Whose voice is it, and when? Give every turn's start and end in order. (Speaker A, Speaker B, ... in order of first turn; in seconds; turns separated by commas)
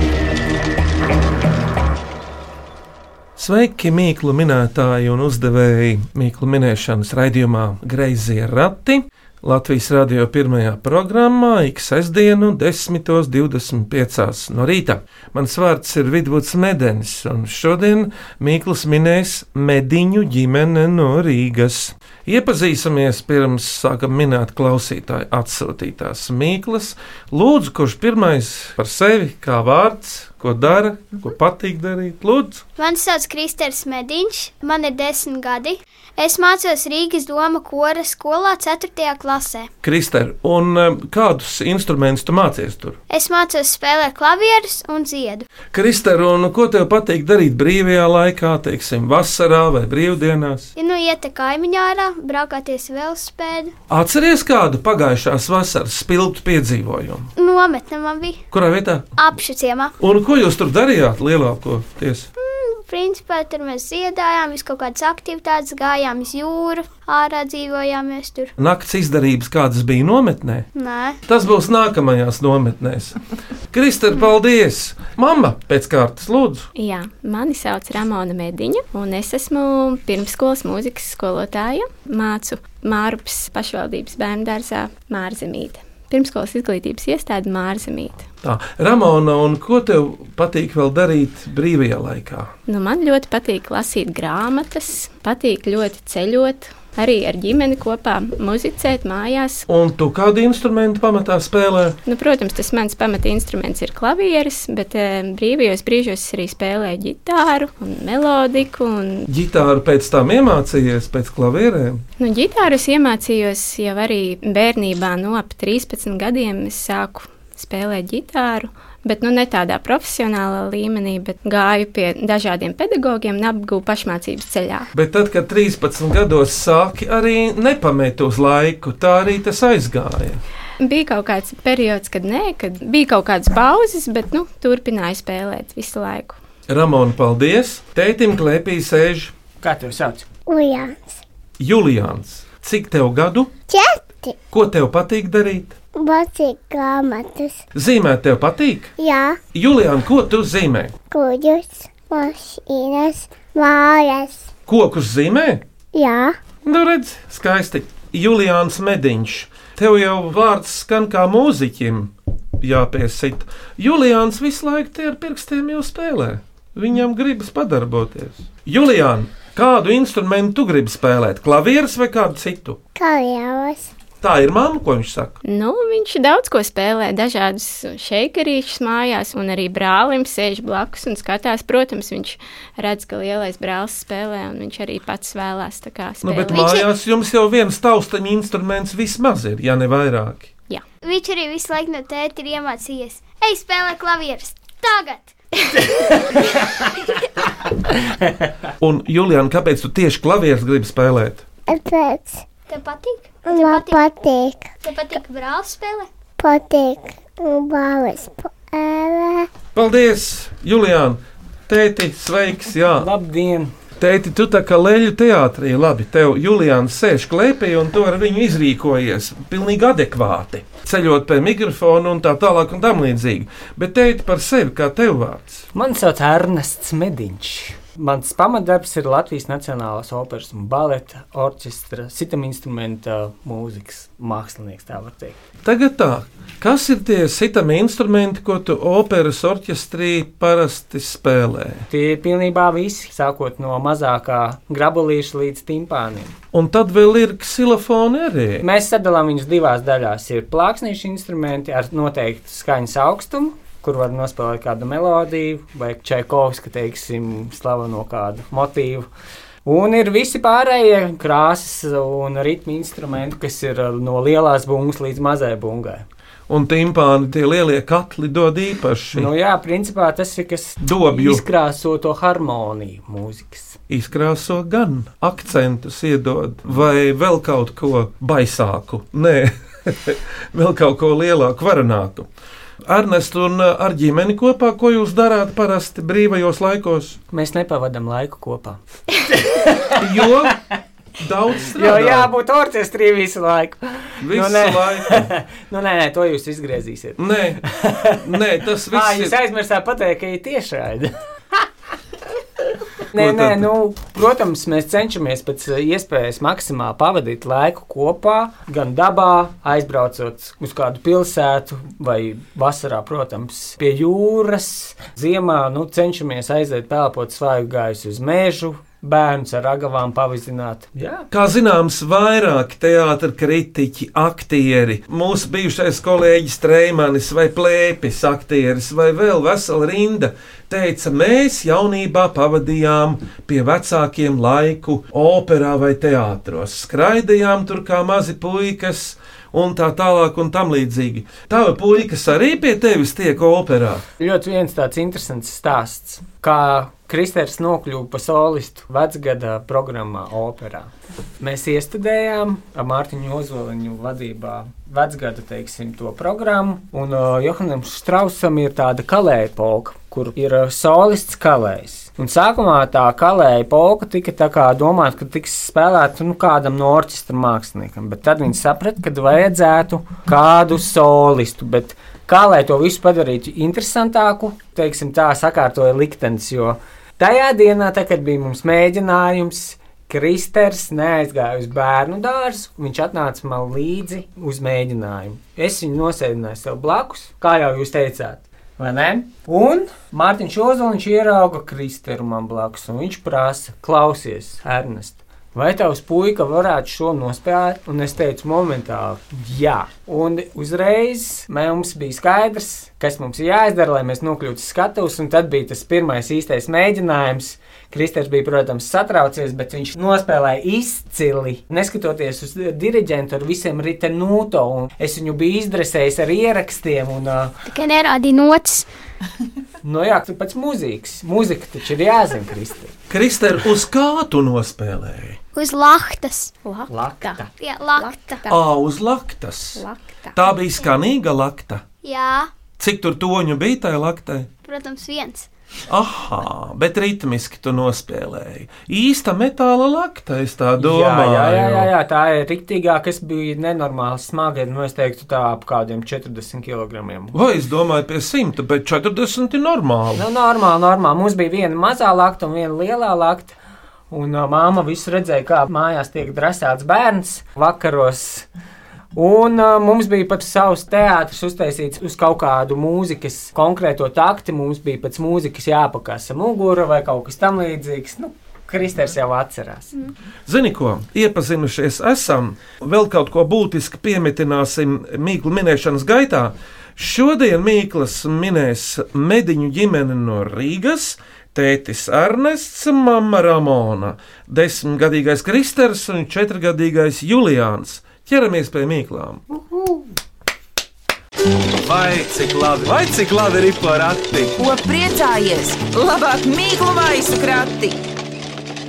Speaker A: 3.4-32.6, Speaker B: 32.8-39.7, Speaker A: 39.8-43.0, Speaker B: 43.1-45.5, Speaker A: 45.7-50.7, Speaker B: 50.8-53.7, Speaker A: 53.9-57.3, Speaker B: 57.4-58.4, Speaker A: 58.5-59.1, Speaker B: 59.2-59.9, Speaker A: 60.0-62.3, Speaker B: 62.4-68.5, Speaker A: 68.6-70.7, Speaker B: 70.7-71.2, Speaker A: 71.2-73.2, Speaker A: 73.7-76.7, Speaker C: 76.7-88.2, Speaker A: 88.4-92.5, Speaker C: 92.7-99.6, Speaker A: 99.7-102.0, Speaker C: 102.0-109.2, Speaker A: 109.3-112.0, Speaker C: 112.2-124.9, Speaker A: 124.9-130.4, Speaker C: 130.8-136.4, Speaker A: 136.7-139.3, Speaker D: 139.6-140.3, Speaker E: 140.5-141.1, Speaker A: 141.6-143.5, Speaker E: 143.7-144.3, Speaker A: 144.5-145.8, Speaker E: 146.0-147.6, Speaker A: 147.7-148.9, Speaker E: 149.0-149.4, Speaker A: 149.5-150.9, Speaker E: 151.1-154.4, Speaker A: 154.7-155.6, Speaker E: 155.9-156.4, Speaker A: 156.6-172.8, Speaker E: 173.0-173.9, Speaker A: 174.2-175.4, Speaker C: 175.4-186.7, Speaker A: 186.2-190.5, Speaker B: 186.5-186.9, Speaker B: 191.0-196.3, Speaker A: 198.8-201.4, Speaker E: 201.7-202.4, Speaker B: 202.7-204.1, Speaker E: 203.4-204.7, Speaker B: 204.8-206.1, Speaker E: 206.4-209.5, Speaker A: 209.7-213.1, Speaker D: 213.0-213.7, Speaker A: 214.0-225.7, Speaker D: 225.7-235.4, Speaker A: 235.6-241.9, Speaker D: 241.9-246.3, Speaker A: 246.5-248.7, Speaker D: 248.6-259.1, Speaker D: 259.6-266.0, Speaker A: 266.5-269.3, Speaker D: 269.1-273.8, Speaker A: 270.8-271.4, Speaker A: 273.9-282.3, Speaker A: 282.8-287.2, Speaker D: 287.3-290.5, Speaker A: 290.0-290.5, Speaker A: 291.2-292.3, Speaker D: 291.7-298.2, Speaker A: 294.2-295.3, Speaker A: 297.2-299.4, Speaker D: 298.9-301.1, Speaker D: 303.1-321.3, Speaker A: 303.1-303.7, Speaker A: 321.3-344.0, Speaker D: 344.2-417.6, Speaker B: 417.6-418.9, Speaker D: 419.8-422.9, Speaker A: 423.1-425.4, Speaker B: 425.5-426.5, Speaker C: 426.6-427.4, Speaker D: 426.9-427.5, Speaker B: 427.6-428.4, Speaker C: 427.9-428.6, Speaker A: 428.5-429.8, Speaker C: 429.8-430.4, Speaker A: 430.3-431.8, Speaker B: 432.0-432.5, Speaker A: 432.8-434.5, Speaker B: 434.6-435.5, Speaker A: 435.9-441.9, Speaker D: 440.8-447.4, Speaker A: 447.3-450.2, Speaker D: 450.1-453.6, Speaker D: 454.1-458.5, Speaker D: 459.1-470.0, Speaker A: 470.5-489.4, Speaker F: 491.8-494.6, Speaker G: 494.6-497.9